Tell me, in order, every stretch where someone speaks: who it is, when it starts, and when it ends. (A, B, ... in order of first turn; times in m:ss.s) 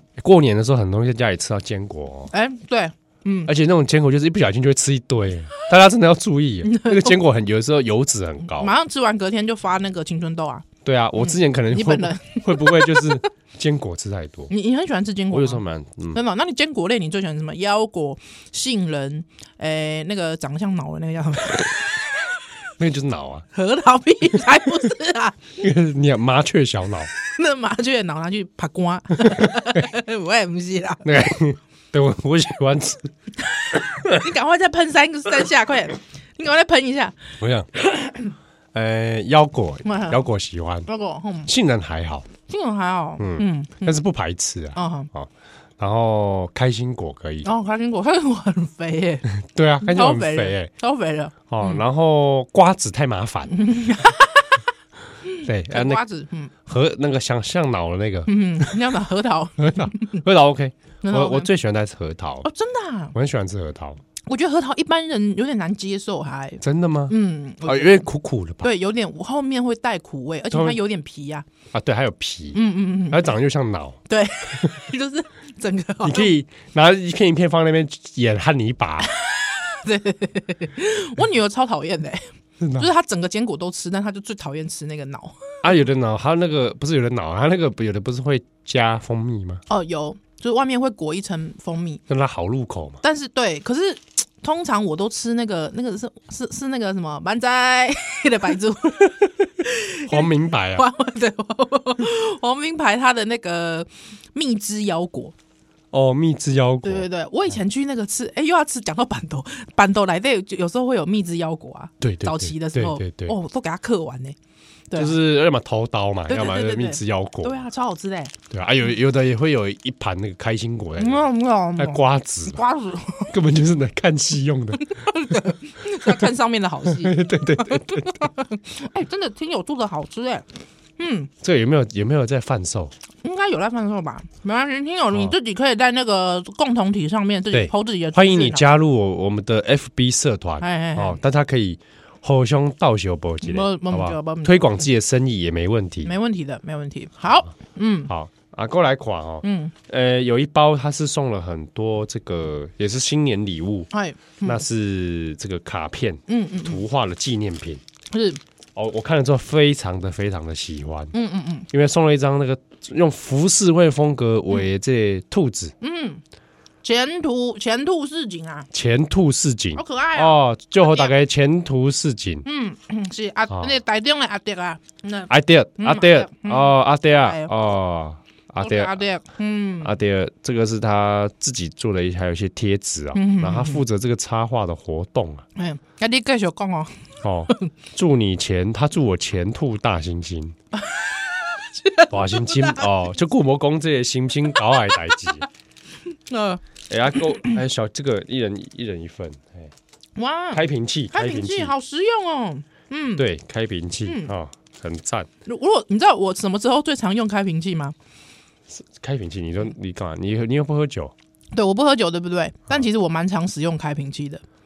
0:00.2-0:02.3 A
0:02.3-0:03.5 B
0:03.5-0:08.7 A
0:06.6-0:07.2 B
0:08.6-0:10.7 B
0:10.8-0:14.5 A
0:11.2-0:13.2 B
0:14.5-0:21.8 B
0:15.3-0:16.2 A
0:22.8-0:23.5 A
0:23.5-0:25.5 B
0:25.6-0:27.1 A
0:27.2-0:31.1 B
0:31.0-0:33.1 A
0:33.6-0:37.3 B
0:37.4-0:37.8 A
0:38.7-0:40.9 A
0:39.8-0:40.2 B
0:40.9-0:41.5 B
0:41.5-0:42.3 A
0:42.5-0:44.0 B
0:43.2-0:47.5 A
0:44.8-0:45.1 B
0:47.4-0:49.3 B
0:49.3-0:50.7 A
0:49.8-0:51.8 B
0:51.5-0:53.6 A
0:53.5-0:54.6 B
0:55.3-0:56.5 B
0:55.4-0:56.0 A
0:56.6-0:58.7 A
0:58.3-1:00.2 B
0:59.6-1:02.5 A
1:01.0-1:01.5 B
1:02.4-1:03.1 B
1:03.1-1:04.0 A
1:04.3-1:08.1 B
1:06.6-1:07.2 A
1:07.7-1:08.7 A
1:08.6-1:11.5 B
1:10.5-1:10.8 A
1:11.7-1:14.0 A
1:12.5-1:13.3 B
1:14.1-1:16.3 B
1:16.0-1:19.1 A
1:19.2-1:25.6 B
1:22.6-1:22.9 A
1:25.6-1:29.6 A
1:29.7-1:32.0 B
1:32.1-1:33.0 A
1:33.0-1:45.3 B
1:40.1-1:40.9 A
1:45.9-1:47.1 A
1:46.8-1:54.4 B
1:52.0-1:53.4 A
1:54.9-1:55.2 B
1:55.0-1:57.6 A
1:56.3-1:58.4 B
1:58.5-2:02.6 A
2:01.0-2:03.3 B
2:03.3-2:05.0 A
2:04.8-2:10.4 B
2:06.9-2:08.3 A
2:11.0-2:11.3 B
2:11.4-2:12.9 A
2:13.2-2:18.6 B
2:17.5-2:26.1 A
2:20.6-2:21.2 B
2:23.4-2:24.6 B
2:26.0-2:28.1 B
2:28.1-2:33.9 A
2:29.4-2:29.7 B
2:33.9-2:34.6 B
2:34.4-2:37.8 A
2:36.3-2:36.8 B
2:38.1-2:38.4 B
2:38.8-2:41.1 A
2:41.1-2:41.7 B
2:41.7-2:45.8 A
2:45.8-2:46.2 B
2:46.8-2:48.7 B
2:48.7-2:52.4 A
2:49.8-2:51.1 B
2:52.4-2:57.5 B
2:53.5-2:53.8 A
2:55.3-2:59.0 A
2:58.6-2:59.9 B
2:59.8-3:05.4 A
3:03.1-3:03.8 B
3:05.6-3:07.7 B
3:07.2-3:10.6 A
3:11.7-3:12.9 B
3:12.1-3:15.4 A
3:16.3-3:16.6 B
3:16.9-3:19.7 A
3:20.2-3:23.3 B
3:20.5-3:21.7 A
3:23.2-3:25.3 A
3:24.0-3:24.3 B
3:25.5-3:28.0 B
3:28.7-3:31.1 A
3:31.6-3:34.4 B